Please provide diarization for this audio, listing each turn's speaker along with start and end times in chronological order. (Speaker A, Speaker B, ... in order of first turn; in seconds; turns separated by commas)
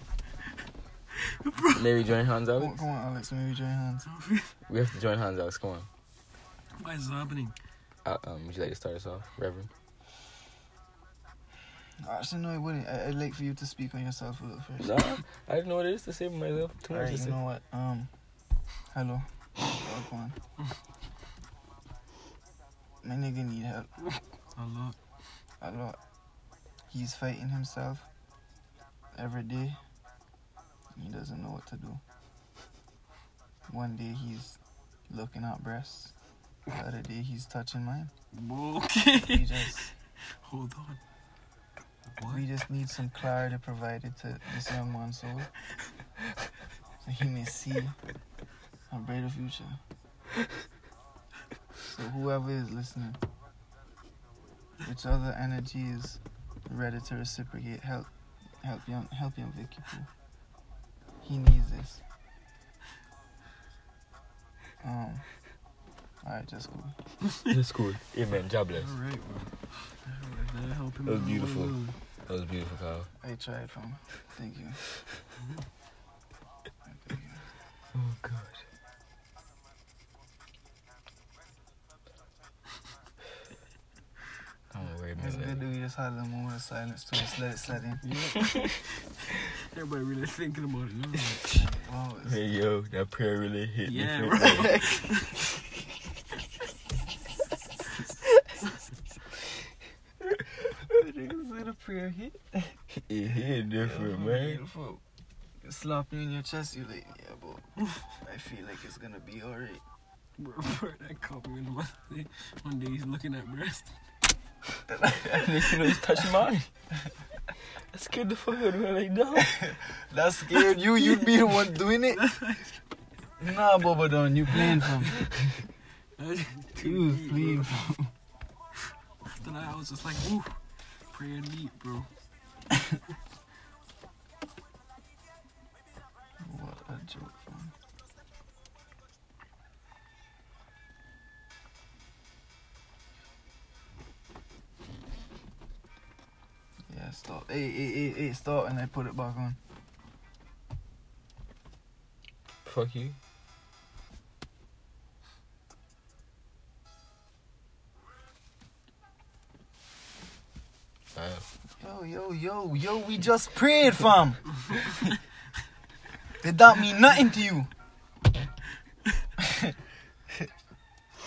Speaker A: 1.2-1.8, Speaker B: 1.7-2.8, Speaker C: 2.5-4.0, Speaker A: 4.0-4.5, Speaker B: 4.7-5.9, Speaker A: 6.8-7.5, Speaker B: 8.0-9.7, Speaker C: 12.0-14.9, Speaker B: 14.8-17.4, Speaker C: 16.9-18.1, Speaker C: 18.9-20.4, Speaker C: 23.0-23.9, Speaker A: 24.6-25.0, Speaker C: 25.6-26.0, Speaker C: 26.9-28.1, Speaker C: 29.1-29.8, Speaker C: 30.9-32.0, Speaker C: 33.7-34.6, Speaker C: 35.1-36.1, Speaker C: 36.7-38.1, Speaker A: 38.3-39.6, Speaker C: 39.2-39.9, Speaker A: 40.2-41.0, Speaker A: 42.2-42.4, Speaker C: 42.2-45.5, Speaker C: 47.0-48.0, Speaker C: 48.9-49.8, Speaker C: 51.8-53.2, Speaker C: 54.8-58.1, Speaker C: 58.6-60.1, Speaker C: 61.2-62.0, Speaker C: 64.8-65.2, Speaker C: 66.2-67.0, Speaker B: 67.4-68.9, Speaker A: 68.7-72.0, Speaker B: 71.0-73.1, Speaker C: 73.2-74.8, Speaker C: 76.9-77.4, Speaker B: 77.9-78.6, Speaker B: 84.7-85.6, Speaker C: 85.1-88.0, Speaker A: 88.0-91.6, Speaker C: 91.5-92.4, Speaker B: 92.2-94.7, Speaker A: 93.8-95.5, Speaker C: 94.4-95.4, Speaker C: 100.6-102.8, Speaker B: 103.0-104.6, Speaker C: 103.8-105.0, Speaker C: 105.6-109.8, Speaker A: 110.4-114.0, Speaker C: 114.9-115.8, Speaker B: 115.2-116.7, Speaker B: 117.9-119.6, Speaker C: 119.5-122.2, Speaker A: 122.2-122.8, Speaker C: 123.4-125.2, Speaker A: 126.2-127.7, Speaker C: 126.8-128.1, Speaker A: 129.2-130.6, Speaker A: 131.1-132.1, Speaker C: 136.4-137.7, Speaker C: 146.9-149.6, Speaker B: 152.6-153.2, Speaker B: 161.1-161.4, Speaker C: 161.8-165.2, Speaker C: 166.4-167.7, Speaker C: 169.4-169.8